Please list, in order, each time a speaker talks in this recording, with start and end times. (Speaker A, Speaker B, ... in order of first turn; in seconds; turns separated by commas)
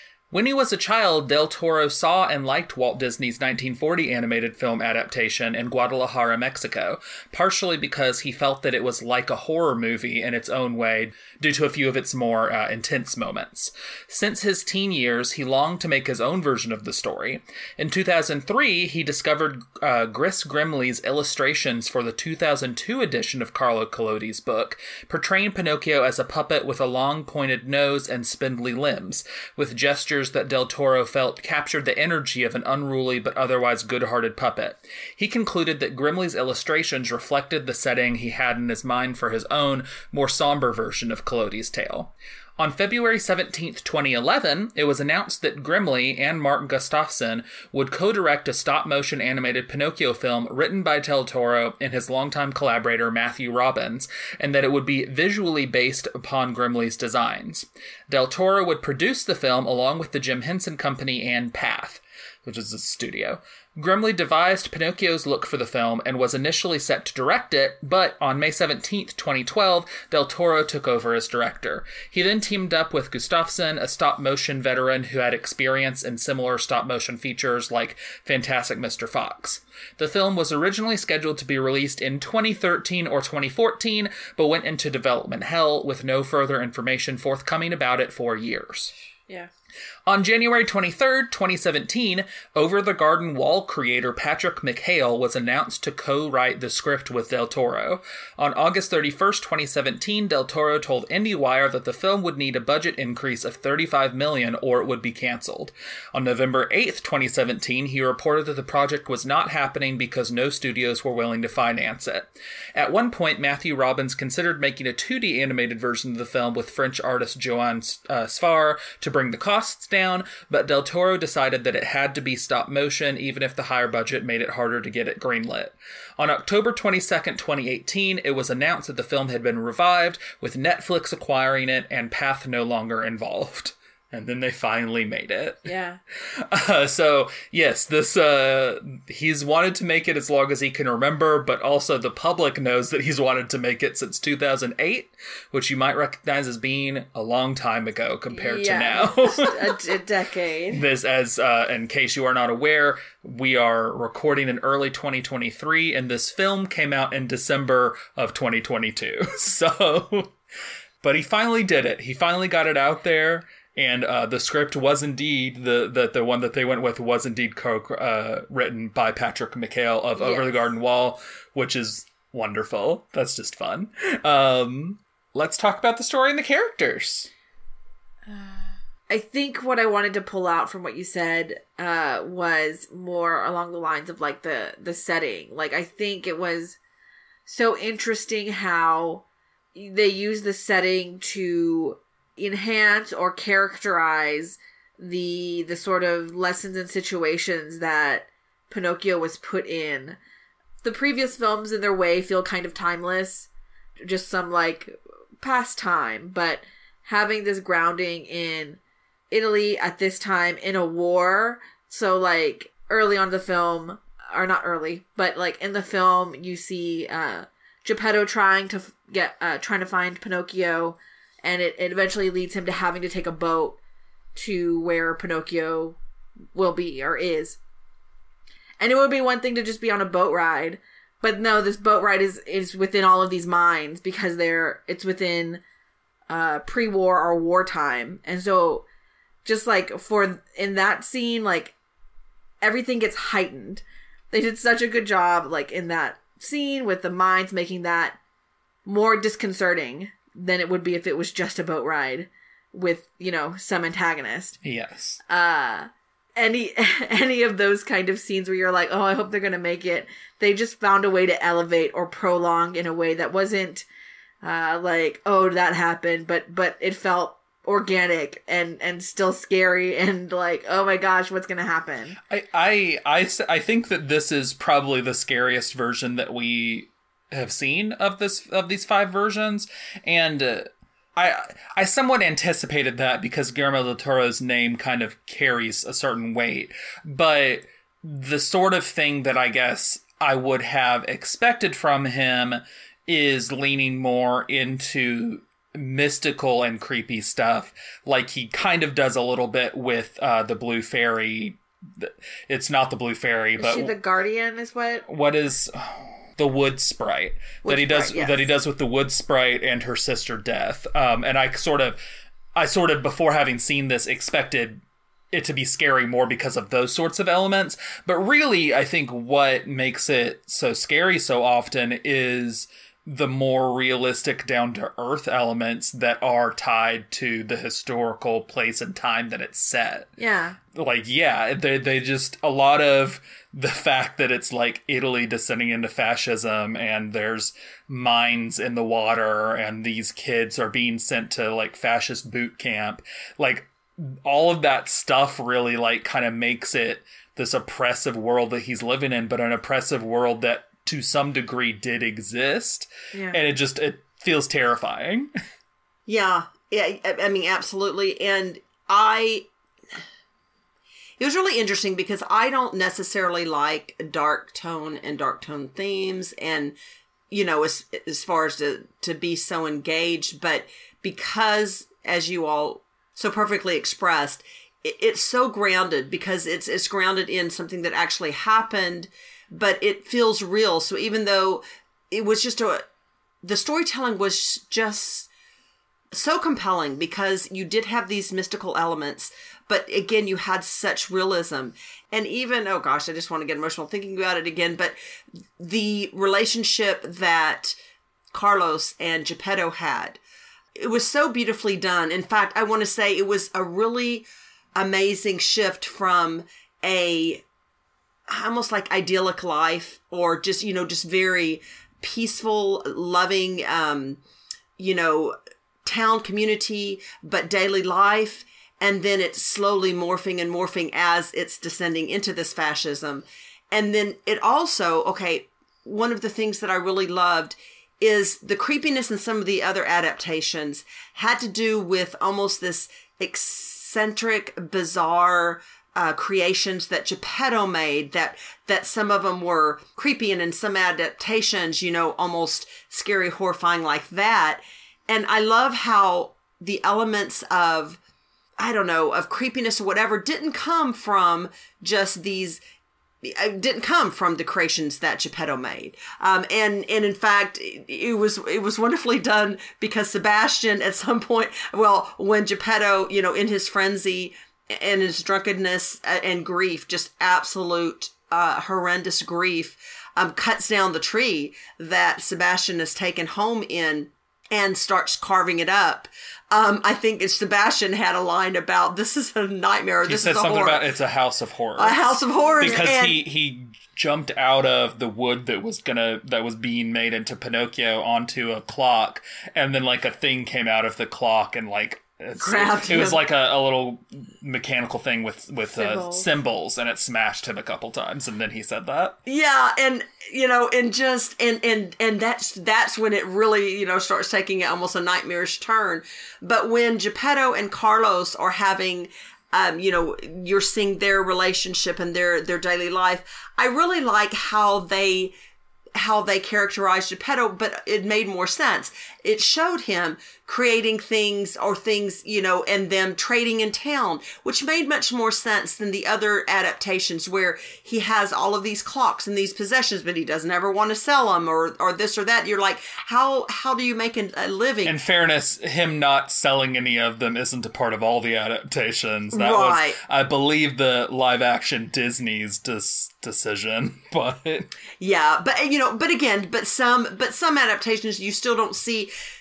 Speaker A: 0.3-88.9, Speaker A: 90.1-135.7, Speaker B: 135.7-136.0, Speaker A: 136.3-149.8, Speaker B: 148.3-150.8, Speaker A: 150.7-160.3, Speaker A: 161.0-177.3, Speaker B: 170.2-170.4, Speaker B: 178.3-186.8, Speaker B: 187.4-200.2, Speaker B: 200.8-203.5, Speaker B: 204.0-223.8, Speaker B: 224.3-226.0, Speaker B: 226.5-227.6, Speaker B: 228.8-235.6, Speaker B: 236.3-238.8, Speaker B: 239.4-241.7, Speaker B: 242.6-248.2, Speaker B: 248.8-254.6, Speaker A: 254.6-255.2, Speaker B: 255.3-263.9, Speaker B: 264.4-272.2, Speaker A: 272.3-303.9, Speaker B: 303.6-305.0, Speaker A: 305.1-312.0, Speaker C: 307.6-308.4, Speaker A: 312.5-314.8, Speaker A: 315.3-330.1, Speaker B: 330.2-330.6, Speaker A: 330.7-355.3, Speaker B: 353.1-353.4, Speaker C: 356.1-359.5, Speaker C: 361.2-366.8, Speaker C: 367.3-382.8, Speaker C: 383.4-385.3, Speaker C: 386.1-394.9, Speaker C: 395.6-397.8, Speaker C: 398.3-400.2, Speaker C: 400.7-407.4, Speaker C: 408.3-414.2, Speaker C: 414.8-448.0, Speaker C: 448.6-452.6, Speaker C: 453.2-480.8, Speaker A: 480.1-499.1, Speaker C: 481.8-483.2, Speaker C: 492.4-493.2, Speaker B: 495.7-496.2, Speaker C: 499.2-515.3, Speaker C: 516.0-535.0, Speaker A: 534.8-544.7, Speaker C: 539.3-540.0, Speaker C: 545.0-549.1